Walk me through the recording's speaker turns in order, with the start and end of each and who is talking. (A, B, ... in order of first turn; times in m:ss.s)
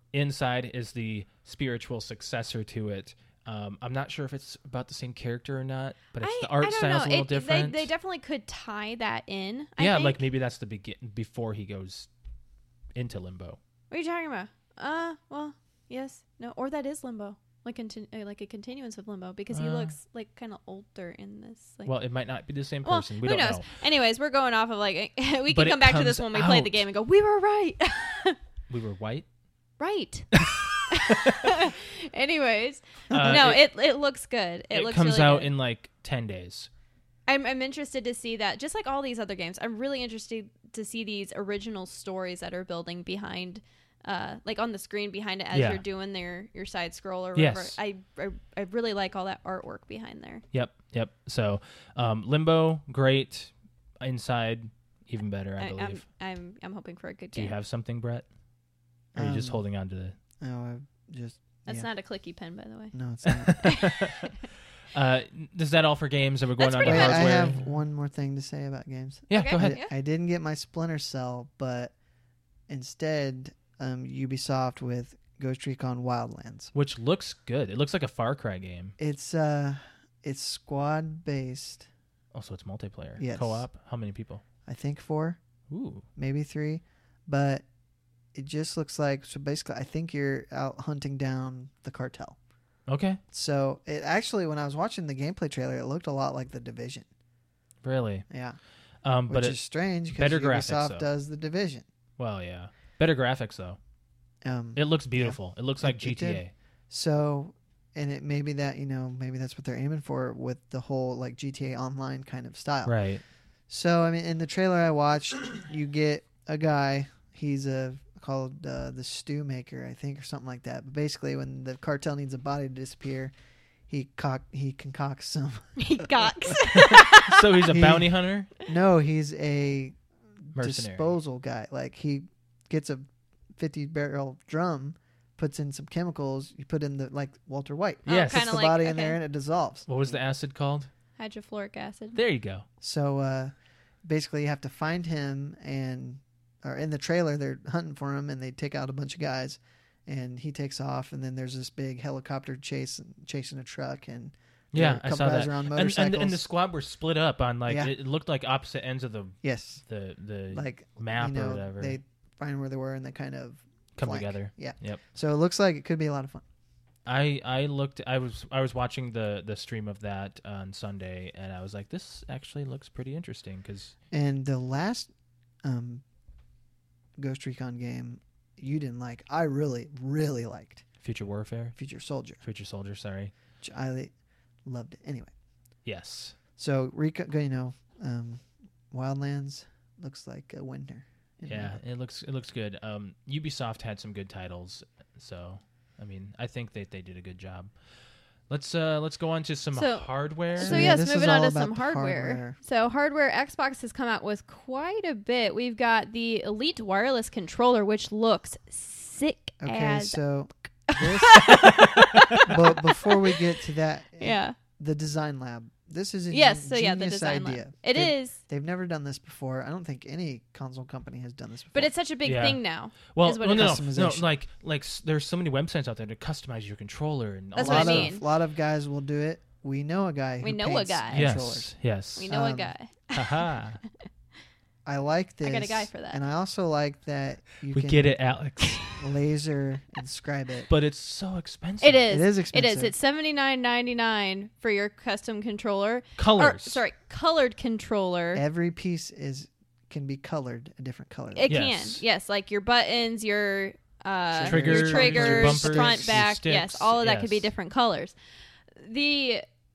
0:00.1-0:07.9 A
0:06.2-0:10.2 B
0:09.8-0:12.1 A
0:12.9-0:13.6 A
0:13.9-0:21.9 B
0:19.5-0:19.9 A
0:21.9-0:23.6 A
0:22.8-0:28.4 B
0:25.5-0:26.8 A
0:28.7-0:29.3 A
0:29.8-0:35.5 B
0:30.3-0:31.5 A
0:33.1-0:33.7 A
0:33.1-0:33.5 C
0:34.7-0:36.7 A
0:37.3-0:50.4 B
0:45.5-0:45.8 A
0:47.3-0:47.8 A
0:50.5-0:56.0 A
0:55.6-0:57.6 B
0:57.3-0:58.3 A
0:59.1-0:59.6 C
0:59.2-1:00.2 A
1:00.4-1:01.9 C
1:01.6-1:02.9 B
1:02.9-1:03.7 C
1:03.3-1:04.3 A
1:03.6-1:04.1 B
1:04.9-1:07.6 A
1:06.6-1:07.4 B
1:06.8-1:11.9 C
1:09.3-1:09.7 A
1:09.3-1:09.9 B
1:12.7-1:16.7 C
1:16.7-1:18.9 A
1:19.0-1:21.9 C
1:22.3-1:24.4 A
1:23.2-1:23.6 C
1:24.6-1:25.4 C
1:25.7-1:26.0 A
1:26.2-1:27.6 C
1:28.3-1:32.4 C
1:32.9-1:33.2 A
1:33.3-1:37.1 C
1:37.8-1:38.3 A
1:38.3-1:38.6 C
1:39.0-1:41.0 A
1:39.3-1:41.9 C
1:42.2-1:43.8 A
1:44.4-1:53.0 C
1:44.8-1:46.5 A
1:52.8-1:53.2 A
1:53.7-2:03.3 C
2:03.9-2:06.6 C
2:05.8-2:07.7 B
2:06.7-2:08.5 A
2:07.7-2:20.2 C
2:10.6-2:11.1 A
2:18.0-2:19.2 B
2:18.1-2:18.5 A
2:19.9-2:20.9 A
2:21.2-2:22.2 B
2:22.1-2:22.6 A
2:22.8-2:23.5 C
2:24.0-2:36.4 C
2:34.7-2:42.0 A
2:37.7-2:37.9 C
2:39.4-2:39.8 C
2:40.5-2:46.4 C
2:44.0-2:45.0 A
2:47.0-2:53.9 A
2:54.1-2:55.1 C
2:55.6-2:56.0 C
2:57.2-3:00.9 C
3:01.0-3:01.8 A
3:01.8-3:02.4 C
3:02.4-3:03.3 A
3:03.6-3:04.1 C
3:04.6-3:05.3 C
3:05.8-3:06.4 A
3:06.6-3:11.8 C
3:11.5-3:17.7 A
3:18.5-3:21.0 A
3:19.7-3:30.2 B
3:20.6-3:22.6 C
3:29.6-3:31.6 C
3:30.9-3:33.4 B
3:32.4-3:41.9 C
3:34.2-3:34.6 B
3:36.3-3:38.4 B
3:41.7-3:43.8 B
3:42.2-3:48.1 A
3:43.4-3:44.3 C
3:47.6-3:48.2 B
3:47.6-3:51.7 C
3:50.4-3:51.3 B
3:51.1-3:52.3 A
3:52.2-3:53.5 B
3:52.3-3:52.7 C
3:53.1-3:53.8 A
3:54.9-3:58.2 C
3:55.4-3:56.2 B
3:57.7-3:58.8 A
3:58.9-4:00.7 C
4:00.7-4:02.1 A
4:01.8-4:08.4 B
4:02.1-4:02.9 C
4:06.2-4:06.8 A
4:08.3-4:11.6 C
4:11.3-4:18.2 B
4:11.5-4:12.0 A
4:14.3-4:16.2 C
4:14.4-4:17.5 A
4:18.8-4:19.4 B